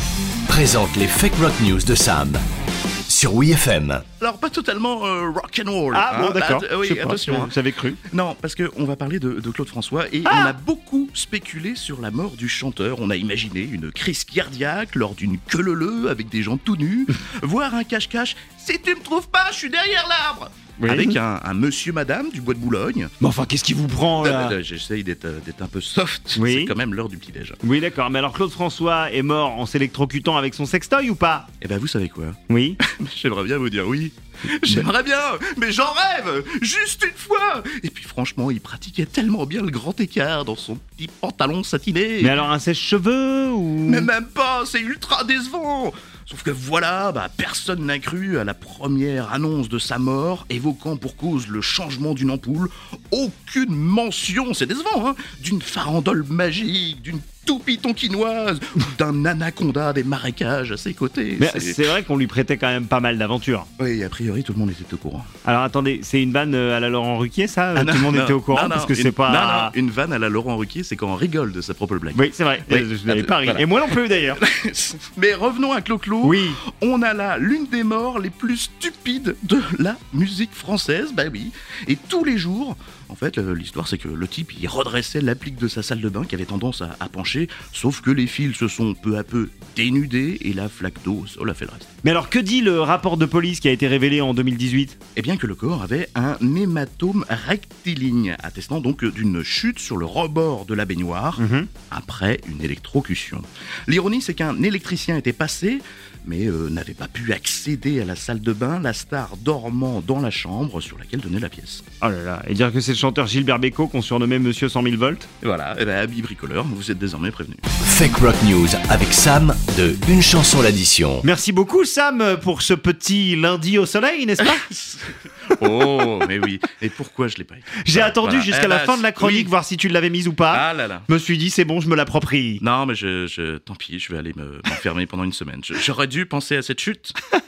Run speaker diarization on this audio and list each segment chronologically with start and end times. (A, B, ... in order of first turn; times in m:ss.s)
0:00.5-0:02.4 A
0:03.1-0:04.0 A
0:04.2-0:07.5 B
0:05.9-0:08.0 C
0:08.1-0:23.1 B
0:10.2-0:10.5 C
0:20.8-0:21.2 C
0:23.2-0:24.6 C
0:24.2-0:27.6 B
0:26.3-0:26.7 C
0:27.6-0:31.5 C
0:31.6-0:42.4 B
0:32.5-0:32.8 C
0:42.2-0:44.1 C
0:43.9-1:01.9 B
1:01.4-1:03.7 C
1:03.8-1:05.3 B
1:05.4-1:09.7 C
1:07.7-1:31.9 B
1:12.1-1:14.4 C
1:16.2-1:16.6 C
1:32.0-1:34.9 C
1:35.2-1:51.8 B
1:41.4-1:41.7 C
1:52.0-1:55.3 C
1:55.4-1:57.6 B
1:57.8-2:01.2 A
2:01.2-2:04.6 C
2:04.4-2:09.5 B
2:07.8-2:12.6 C
2:10.5-2:11.1 B
2:12.6-2:17.1 B